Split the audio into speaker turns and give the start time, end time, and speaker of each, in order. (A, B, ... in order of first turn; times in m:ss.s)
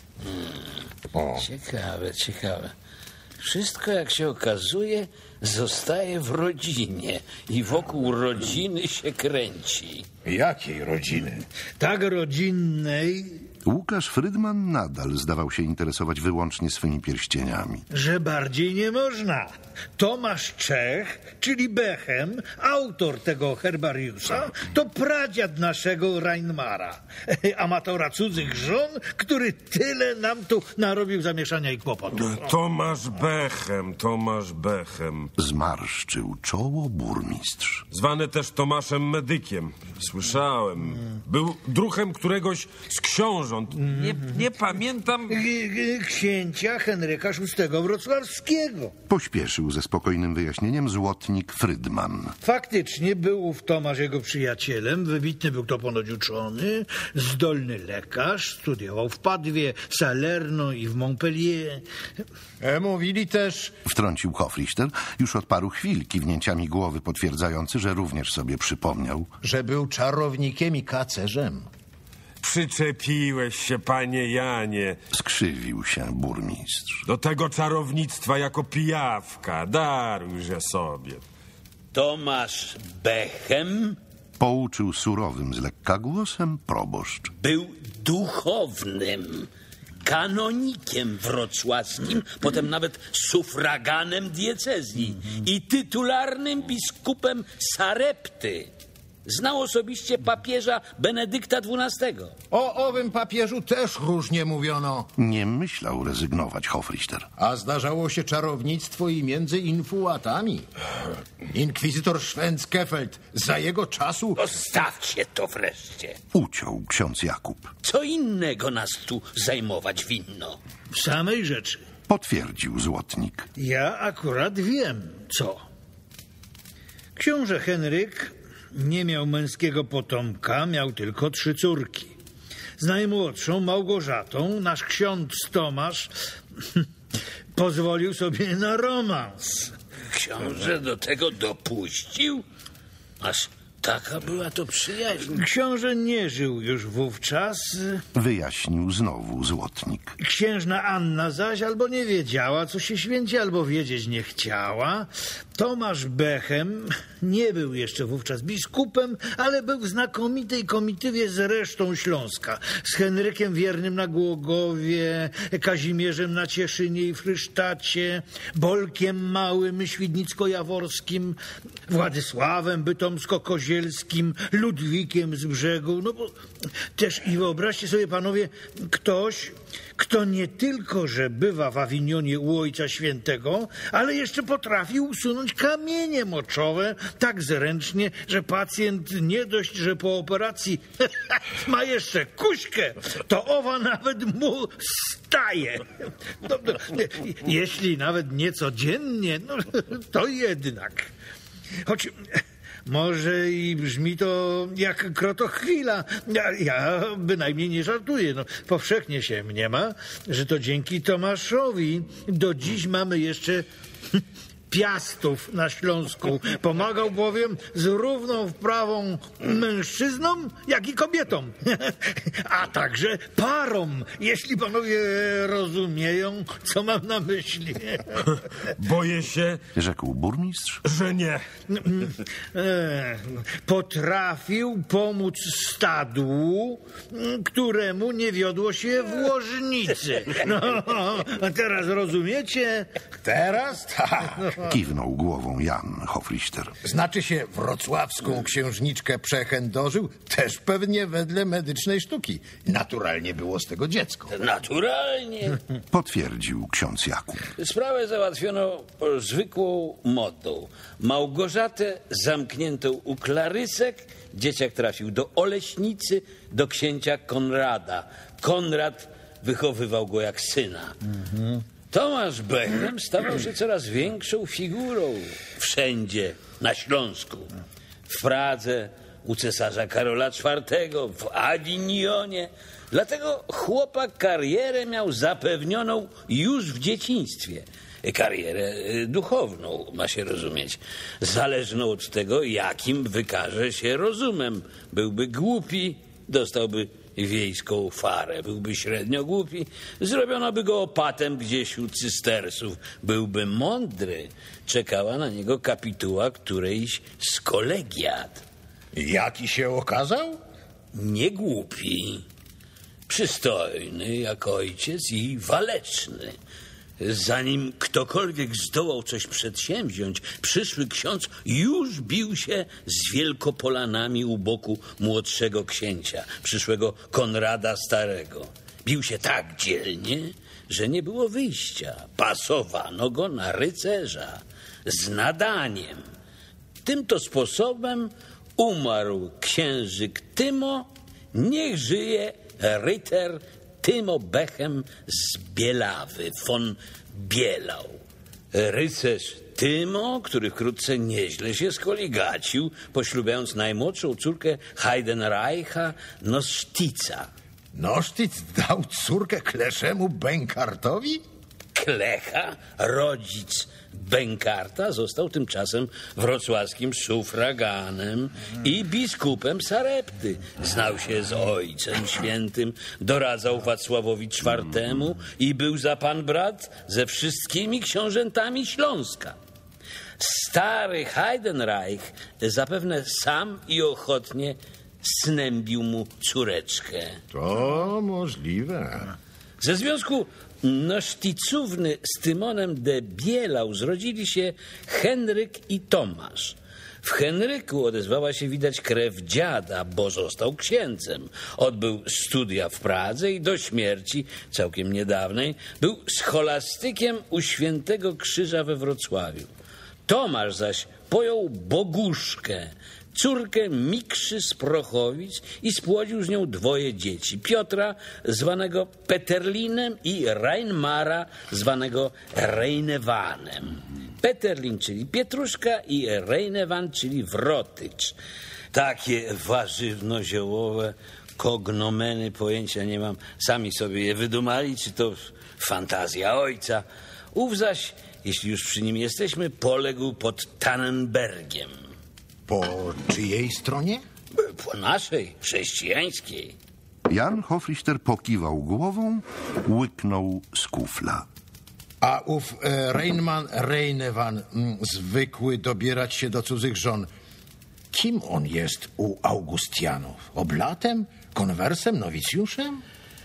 0:00.3-0:00.6 A
0:01.1-0:01.4 B
0:01.4-0:02.7 A
0:03.4-0:10.1 A
0:10.2-0:11.4 B
0:11.8-0:13.5 C
0:13.6-0:17.8 D
0:17.9-0:32.5 C
0:32.1-0:35.3 E
0:35.4-0:37.8 D
0:37.9-0:45.4 E
0:43.9-0:44.4 C
0:45.3-0:48.9 C
0:49.1-0:52.4 D
0:52.4-1:01.8 C
1:02.6-1:03.8 B
1:03.9-1:09.3 D
1:09.4-1:11.7 B
1:12.4-1:15.0 E
1:15.1-1:17.0 D
1:17.1-1:21.2 E
1:21.9-1:24.0 A
1:24.4-1:27.3 D
1:27.4-1:29.5 A
1:30.0-1:38.7 A
1:39.2-1:42.4 A
1:42.5-1:45.1 B
1:45.2-1:47.3 D
1:47.4-1:50.7 B
1:51.5-1:54.4 B
1:54.4-1:56.2 A
1:56.3-1:57.7 D
1:57.8-2:00.6 A
2:00.9-2:01.8 C
2:02.1-2:03.5 D
2:03.6-2:05.6 C
2:07.2-2:12.2 C
2:12.8-2:16.1 C
2:17.6-2:19.7 C
2:20.1-2:22.4 A
2:23.2-2:25.4 A
2:25.3-2:28.0 C
2:28.2-2:30.2 D
2:30.2-2:51.4 C
2:51.9-2:56.4 C
2:57.0-3:15.9 C
3:16.4-3:21.1 C
3:21.8-3:22.3 C
3:22.9-3:33.7 C
3:34.2-3:48.2 C
3:48.8-3:49.6 E
3:49.8-3:50.8 D
3:50.8-3:51.4 E
3:51.7-4:02.9 C
4:03.2-4:04.6 B
4:04.6-4:06.8 D
4:06.8-4:14.3 B
4:14.3-4:15.6 A
4:15.9-4:17.5 D
4:17.6-4:31.0 A
4:31.9-4:37.5 A
4:38.1-5:08.4 A
5:08.9-5:10.4 B
5:10.9-5:12.2 A
5:13.1-5:16.4 A
5:17.0-5:36.0 A
5:36.8-5:48.0 A
5:48.5-5:57.3 A
5:57.7-6:01.2 B
6:01.8-6:19.4 A
6:20.2-6:27.2 A
6:27.3-6:29.1 B
6:29.6-6:49.5 A
6:50.1-7:08.2 A
7:08.7-7:21.7 A
7:22.5-7:24.0 B
7:24.4-7:26.6 A
7:27.1-7:31.3 D
7:32.0-7:37.1 B
7:37.9-7:42.8 B